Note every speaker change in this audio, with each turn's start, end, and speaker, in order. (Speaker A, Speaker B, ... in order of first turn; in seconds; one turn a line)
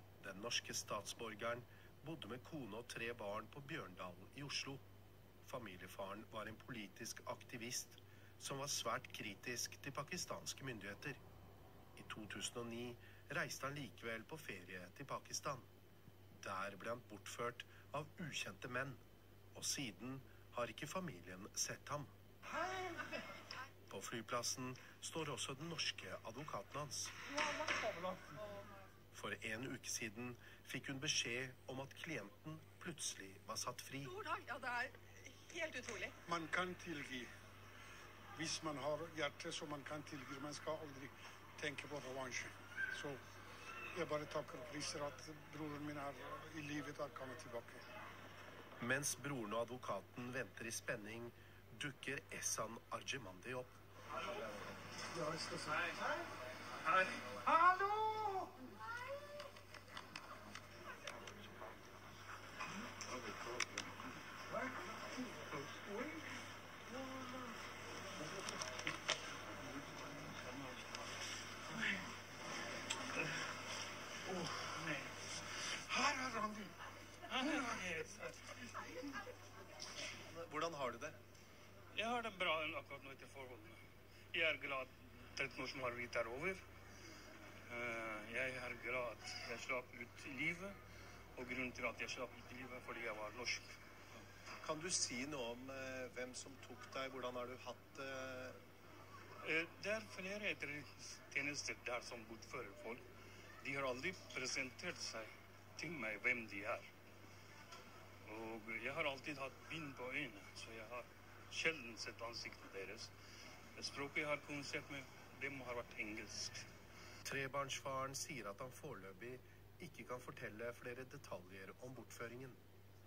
Speaker A: 0.2-4.8
Speaker A: 5.4-11.2
Speaker A: 11.9-15.7
Speaker A: 16.4-19.0
Speaker A: 19.5-22.1
Speaker A: 23.9-27.1
Speaker B: 27.5-28.4
Speaker A: 29.1-34.2
Speaker C: 34.1-36.1
Speaker B: 36.3-37.3
Speaker B: 38.3-43.2
Speaker B: 43.9-47.8
Speaker A: 48.8-53.8
Speaker B: 55.1-55.7
Speaker D: 57.0-58.4
Speaker D: 65.5-66.2
Speaker D: 70.0-70.5
Speaker D: 74.3-75.1
Speaker B: 75.9-76.7
Speaker D: 77.3-78.7
Speaker A: 80.2-81.2
Speaker D: 81.9-83.8
Speaker D: 84.3-86.6
Speaker D: 87.7-90.8
Speaker D: 91.3-93.8
Speaker A: 94.6-98.6
Speaker D: 99.4-103.0
Speaker D: 103.6-106.9
Speaker D: 108.2-113.1
Speaker D: 113.8-116.7
Speaker A: 117.2-122.6